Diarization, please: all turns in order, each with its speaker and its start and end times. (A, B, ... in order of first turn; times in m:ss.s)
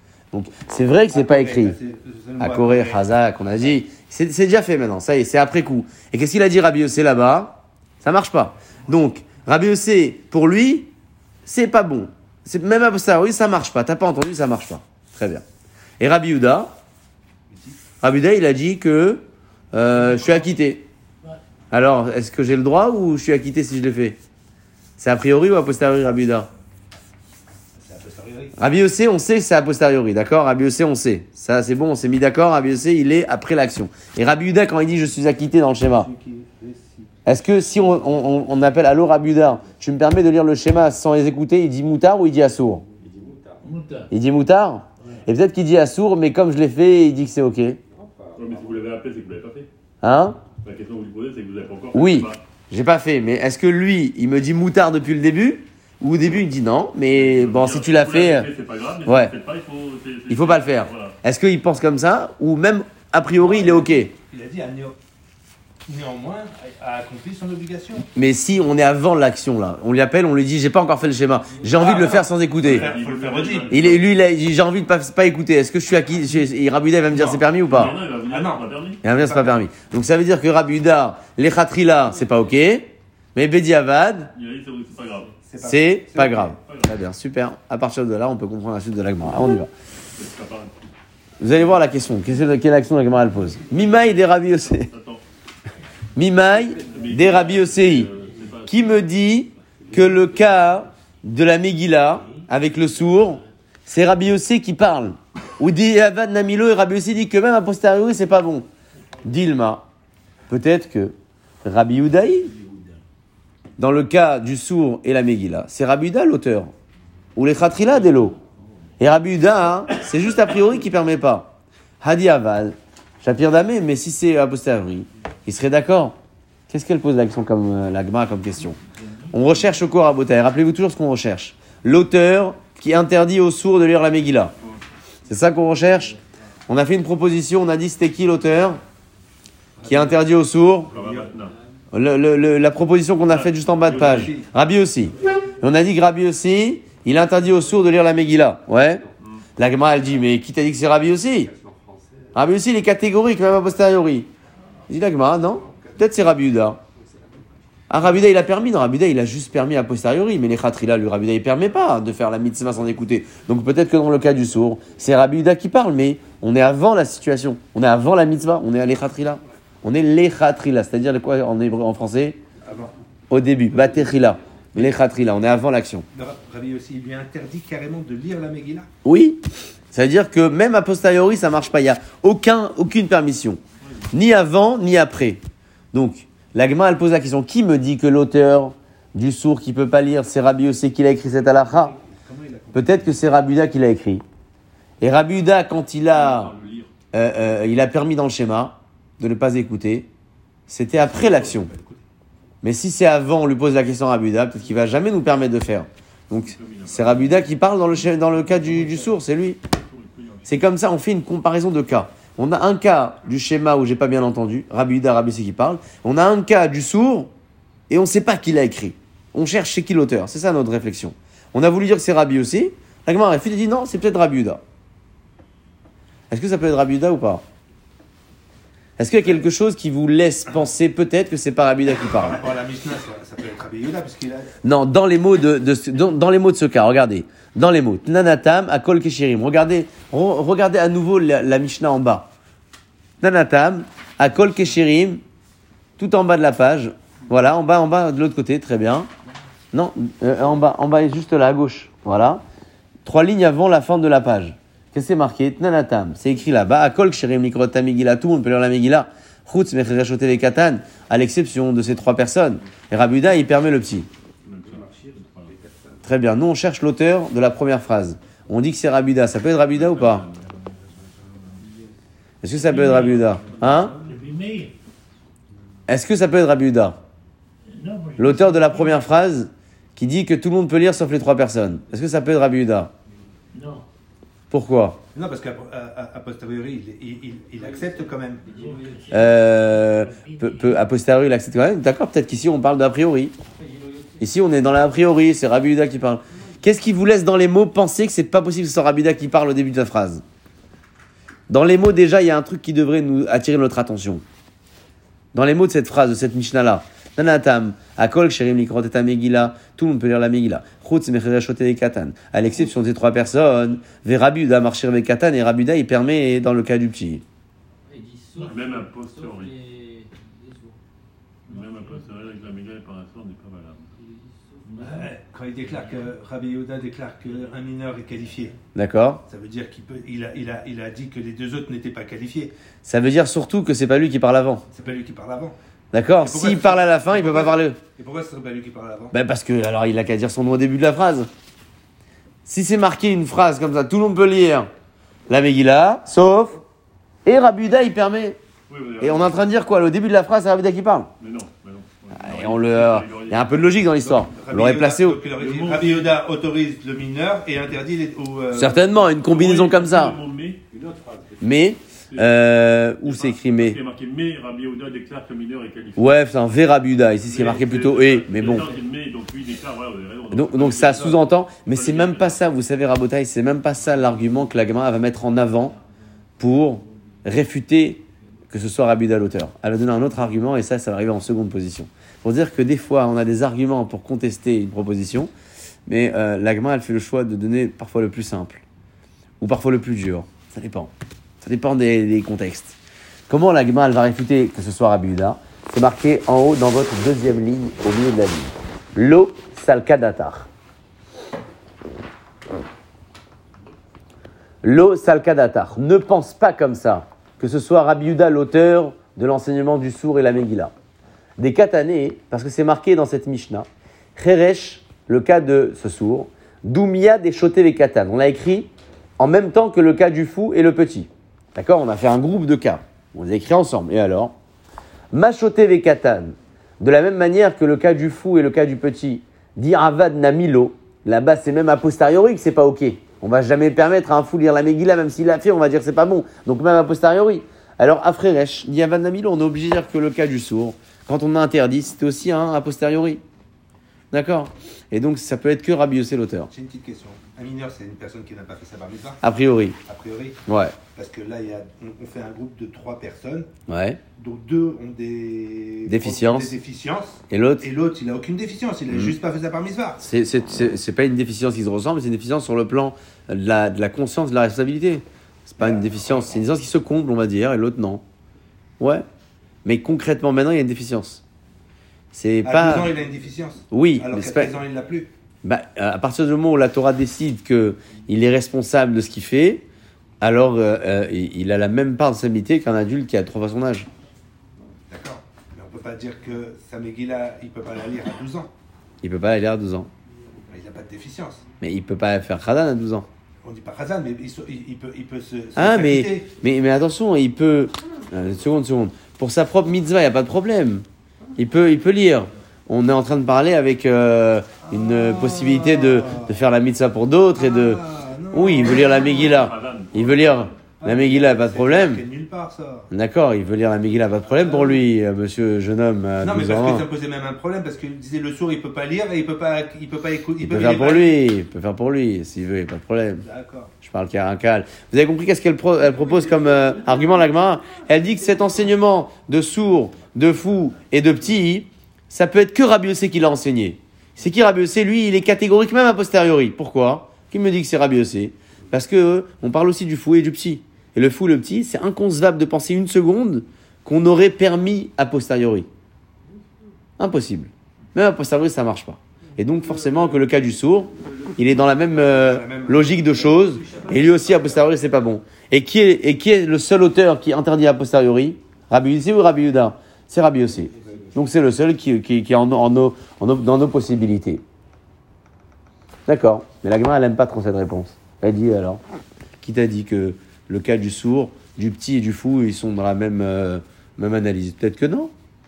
0:00.3-0:01.8 A
0:01.1-0:03.1 B
0:02.4-0:10.9 A
0:11.4-0:15.4 A
0:16.0-0:16.7 A
0:17.5-0:17.8 B
0:18.0-0:20.8 A
0:21.7-0:24.2 A
0:25.0-0:26.5 A
0:27.8-0:28.6 B
0:28.6-0:36.1 A
0:35.8-0:37.1 B
0:37.2-0:42.8 A
0:42.8-0:43.7 C
0:43.6-0:44.1 D
0:44.1-0:47.8 A
0:47.9-0:48.8 C
0:48.4-0:49.7 E
0:50.0-0:50.4 A
0:50.6-0:52.4 E
0:51.9-0:58.5 A
0:57.1-1:01.2 E
0:59.0-0:59.3 A
1:00.3-1:04.1 A
1:03.4-1:05.0 B
1:05.8-1:08.1 B
1:08.1-1:12.9 A
1:11.6-1:14.0 B
1:12.6-1:14.1 E
1:13.7-1:17.9 A
1:17.1-1:19.0 E
1:17.1-1:17.4 B
1:18.2-1:19.6 B
1:19.0-1:24.3 A
1:24.3-1:25.4 E
1:25.4-1:26.6 B
1:25.6-1:29.7 A
1:26.6-1:26.9 E
1:30.1-1:30.9 E
1:31.4-1:34.9 A
1:33.6-1:35.2 E
1:36.1-1:38.1 A
1:36.7-1:37.6 C
1:36.8-1:39.0 E
1:38.6-1:48.7 A
1:39.8-1:40.5 C
1:49.2-1:49.8 A
1:50.5-1:52.5 A
1:52.5-1:53.0 D
1:53.8-1:56.7 A
1:57.4-1:58.4 A
1:59.0-2:06.2 A
2:06.7-2:08.8 A
2:09.3-2:14.5 A
2:15.3-2:16.2 A
2:16.7-2:18.8 A
2:19.8-2:20.2 B
2:19.8-2:20.9 A
2:20.9-2:21.4 B
2:20.9-2:21.5 E
2:21.9-2:29.0 A
2:23.3-2:24.4 E
2:23.9-2:24.5 B
2:29.6-2:31.5 A
2:31.3-2:32.4 C
2:32.3-2:34.3 A
2:34.9-2:36.8 A
2:35.4-2:37.6 C
2:37.9-2:52.4 A
2:52.6-2:52.9 B
2:53.3-2:56.0 A
2:56.1-2:58.9 B
2:59.0-3:03.6 A
3:04.1-3:05.4 A
3:05.9-3:11.9 A
3:11.3-3:13.3 B
3:12.7-3:14.2 A
3:15.0-3:16.5 A
3:16.1-3:16.9 E
3:17.1-3:20.1 A
3:20.7-3:21.7 A
3:21.1-3:22.0 B
3:22.6-3:29.6 A
3:26.3-3:27.5 E
3:28.5-3:29.0 E
3:29.7-3:30.6 E
3:30.4-3:37.3 A
3:37.9-3:44.6 A
3:46.3-3:47.4 A
3:49.0-3:52.4 A
3:52.1-3:54.5 B
3:54.6-4:02.3 A
4:03.2-4:05.2 A
4:06.0-4:09.1 A
4:09.7-4:12.4 A
4:13.0-4:24.1 A
4:24.4-4:25.5 E
4:24.6-4:26.0 C
4:26.0-4:30.2 A
4:29.7-4:30.6 E
4:31.6-4:31.9 C
4:32.4-4:34.0 A
4:32.7-4:33.7 E
4:32.7-4:34.7 D
4:33.5-4:34.1 C
4:35.9-4:37.0 A
4:37.7-4:39.1 D
4:38.2-4:42.9 A
4:43.5-4:43.8 D
4:44.5-4:45.0 A
4:45.1-4:48.4 B
4:47.5-4:49.3 C
4:48.5-4:50.8 D
4:49.1-4:53.3 A
4:53.4-4:54.4 C
4:54.2-5:00.2 A
5:01.5-5:04.2 A
5:05.3-5:17.2 A
5:17.8-5:20.8 C
5:18.5-5:19.5 E
5:21.5-5:23.9 E
5:21.5-5:21.9 C
5:23.9-5:25.1 C
5:24.6-5:25.0 E
5:24.8-5:28.6 B
5:28.7-5:29.2 A
5:29.3-5:32.5 B
5:32.8-5:34.6 A
5:34.7-5:35.6 B
5:35.9-5:37.8 A
5:36.2-5:39.1 B
5:39.1-5:41.3 A
5:42.4-5:44.7 A
5:45.3-5:46.6 A
5:47.2-5:48.4 A
5:48.7-5:49.4 E
5:49.0-5:51.1 A
5:51.2-5:53.8 E
5:52.2-5:55.2 A
5:54.0-5:59.0 B
5:55.4-5:56.2 E
5:58.5-6:00.2 A
5:59.2-6:00.6 E
6:00.7-6:01.6 C
6:01.4-6:03.8 A
6:03.0-6:06.2 E
6:06.0-6:08.7 A
6:07.3-6:12.4 E
6:10.3-6:15.8 A
6:16.4-6:25.3 A
6:25.9-6:28.6 A
6:29.4-6:32.8 A
6:33.3-6:40.5 A
6:44.6-6:50.7 A
6:51.4-7:04.3 A
7:05.1-7:23.2 A
7:24.1-7:26.5 A
7:26.5-7:29.2 B
7:29.2-7:29.8 A
7:29.8-7:33.5 B
7:30.4-7:30.7 A
7:33.7-7:34.0 A
7:34.2-7:40.0 B
7:35.9-7:36.5 A
7:37.3-7:37.6 A
7:38.9-7:39.2 A
7:40.0-7:48.0 A
7:45.6-7:46.4 B
7:48.8-7:49.0 A
7:49.6-7:51.2 A
7:52.1-7:52.9 A
7:52.4-7:55.1 B
7:53.7-7:54.6 A
7:55.4-7:59.6 A
8:00.2-8:03.9 A
8:04.9-8:08.5 B
8:09.0-8:09.9 A
8:10.5-8:11.4 B
8:11.6-8:13.1 A
8:13.4-8:16.3 B
8:15.6-8:20.8 A
8:21.4-8:32.0 A
8:24.7-8:26.3 B
8:27.3-8:29.3 B
8:28.8-8:30.5 E
8:30.8-8:32.9 B
8:32.9-8:36.9 A
8:34.2-8:34.8 B
8:36.2-8:41.2 B
8:40.4-8:43.2 A
8:43.2-8:43.7 B
8:43.8-9:05.7 A
9:07.0-9:24.4 A
9:11.8-9:14.6 B
9:13.7-9:14.7 C
9:20.7-9:21.1 B
9:26.1-9:28.8 A
9:29.4-9:35.1 A